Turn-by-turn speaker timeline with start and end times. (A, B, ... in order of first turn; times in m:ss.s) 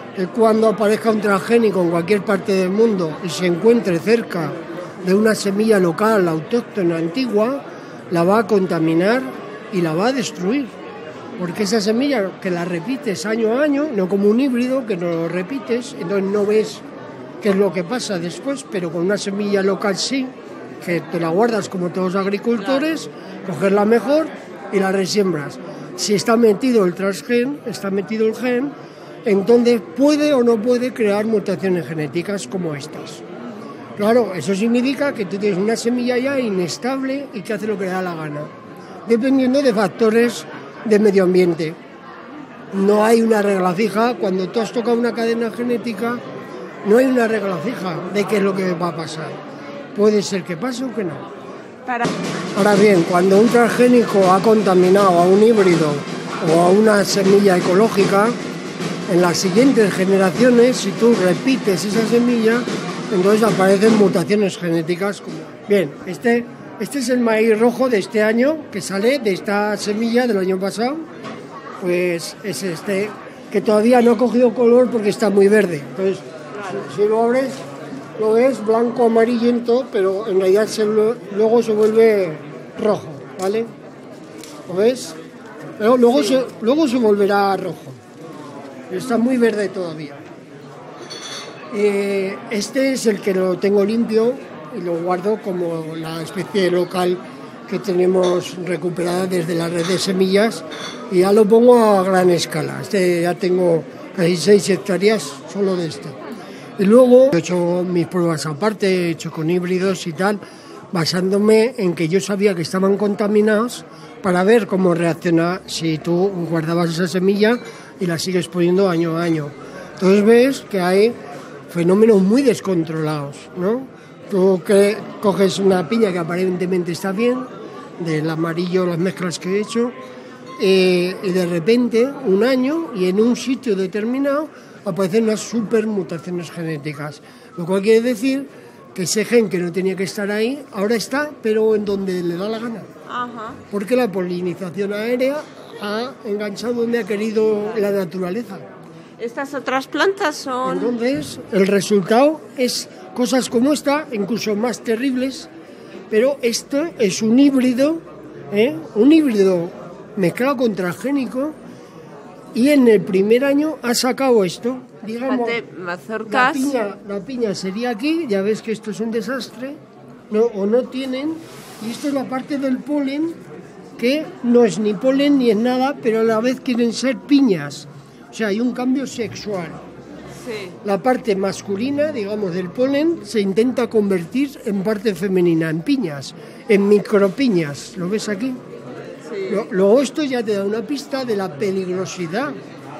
0:00.2-0:10.8 A
0:11.4-0:16.8 A
0:17.4-0:33.2 A
0:34.0-0:38.5 A
0:39.0-0:41.8 A
0:42.7-0:46.2 A
0:46.8-0:49.4 A
0:49.9-0:51.3 A
0:52.5-0:58.4 A
0:59.1-1:11.1 A
1:11.8-1:17.6 A
1:18.2-1:23.7 A
1:24.7-1:25.2 A
1:25.8-1:28.0 A
1:28.9-1:30.2 A
1:31.7-1:46.2 A
1:46.8-1:50.4 A
1:50.9-2:01.2 A
2:01.7-2:09.9 A
2:10.6-2:22.9 A
2:23.1-2:23.6 B
2:23.7-2:28.7 A
2:29.2-2:30.9 B
2:30.6-2:35.5 A
2:36.1-2:41.6 A
2:42.5-2:45.6 A
2:45.3-2:46.8 B
2:46.2-2:49.8 A
2:50.3-2:53.4 A
2:54.0-2:59.8 A
3:00.4-3:00.8 B
3:00.8-3:08.6 A
3:09.2-3:09.7 B
3:09.5-3:12.6 A